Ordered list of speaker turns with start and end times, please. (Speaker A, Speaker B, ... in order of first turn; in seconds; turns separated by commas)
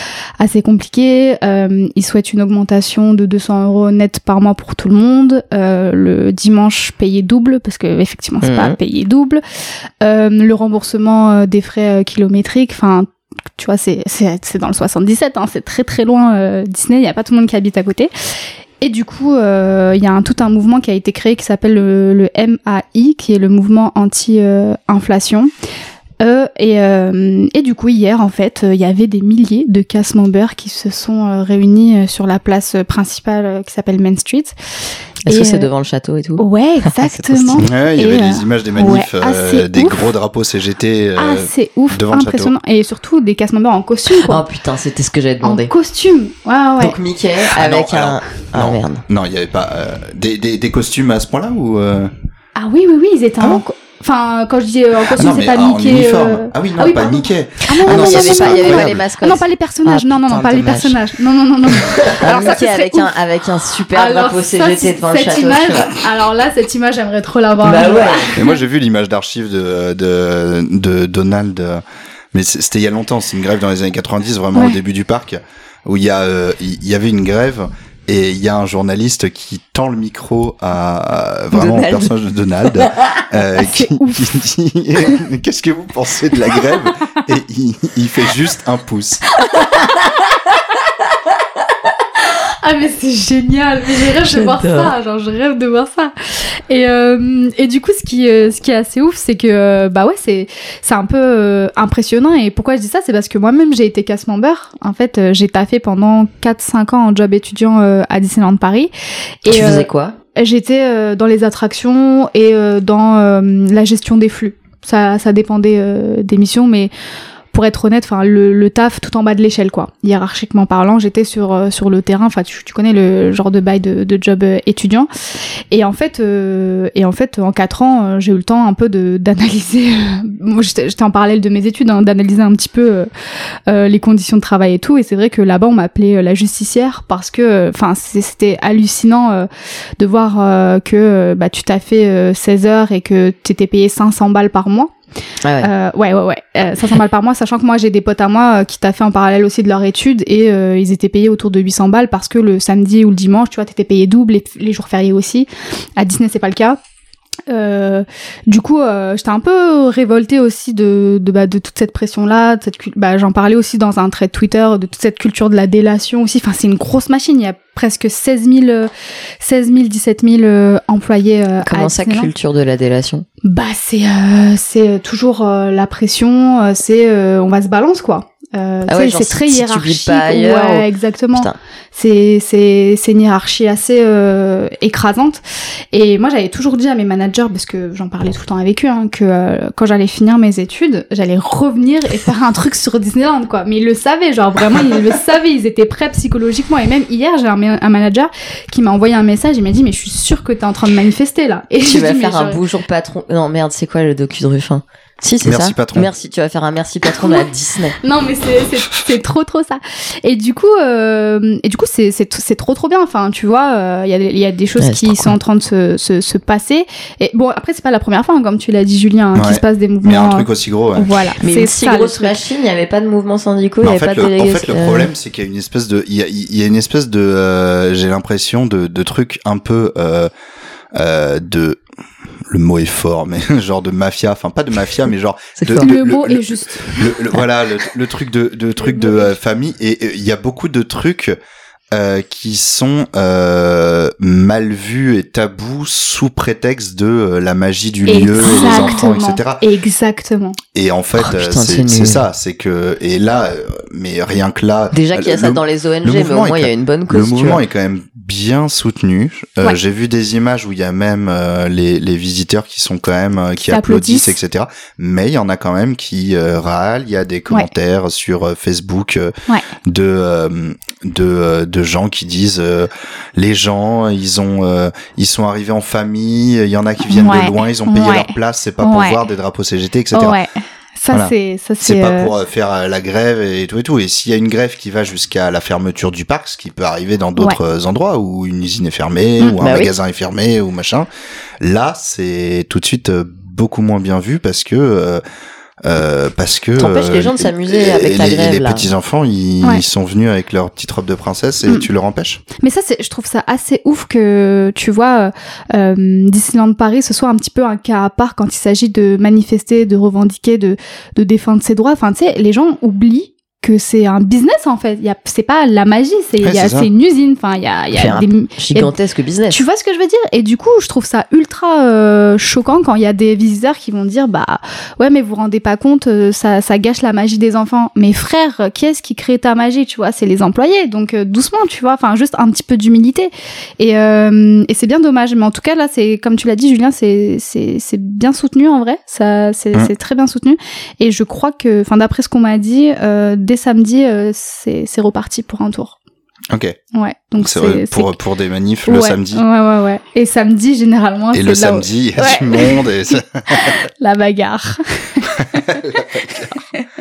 Speaker A: 0.4-9.4, Speaker B: 8.4-8.8, Speaker A: 10.0-18.1, Speaker A: 18.8-25.5, Speaker A: 26.2-34.5, Speaker B: 35.3-37.7, Speaker A: 35.3-35.7, Speaker A: 36.4-40.1, Speaker C: 37.6-42.5, Speaker A: 41.2-44.4, Speaker B: 44.1-45.7, Speaker A: 45.4-47.0, Speaker B: 46.8-49.0, Speaker C: 47.4-52.1, Speaker A: 52.6-63.1, Speaker C: 55.1-59.0, Speaker B: 57.8-61.0, Speaker B: 61.7-66.0, Speaker A: 63.9-68.6, Speaker B: 67.6-68.3, Speaker C: 68.3-89.2, Speaker B: 81.5-82.1, Speaker B: 82.7-83.3, Speaker A: 83.6-84.3, Speaker B: 89.6-90.3, Speaker A: 92.6-96.1, Speaker B: 94.2-94.9, Speaker A: 96.7-108.9, Speaker A: 109.4-116.9, Speaker B: 109.5-110.2, Speaker A: 117.5-125.1, Speaker A: 125.7-133.1, Speaker A: 133.7-144.9, Speaker B: 145.4-145.7, Speaker A: 145.6-156.8, Speaker A: 157.5-172.3, Speaker B: 171.6-173.3, Speaker A: 173.4-185.4, Speaker B: 178.9-181.6, Speaker A: 185.9-202.6, Speaker B: 201.8-208.0, Speaker C: 205.4-206.1, Speaker A: 207.1-207.5, Speaker A: 208.0-222.4, Speaker B: 214.8-215.3, Speaker C: 219.3-221.1, Speaker B: 221.4-225.1, Speaker C: 223.8-230.3, Speaker C: 230.9-231.8, Speaker C: 232.5-241.4, Speaker B: 235.6-235.9, Speaker A: 235.8-237.2, Speaker A: 238.8-239.3, Speaker C: 241.9-249.6, Speaker A: 248.1-250.6, Speaker C: 250.7-269.3, Speaker B: 251.2-252.2, Speaker B: 254.9-257.6, Speaker A: 263.6-264.4, Speaker C: 269.9-280.4, Speaker A: 277.1-279.2, Speaker A: 280.1-282.3, Speaker C: 281.1-291.1, Speaker B: 289.6-289.9, Speaker C: 291.6-295.2, Speaker C: 295.8-302.4, Speaker B: 296.8-298.9, Speaker A: 302.6-318.9, Speaker C: 316.4-316.9, Speaker B: 317.9-319.6, Speaker A: 319.5-346.0, Speaker C: 346.5-346.8, Speaker A: 346.9-348.1, Speaker C: 347.4-349.4, Speaker A: 348.9-355.7, Speaker C: 351.3-353.8, Speaker C: 355.4-356.5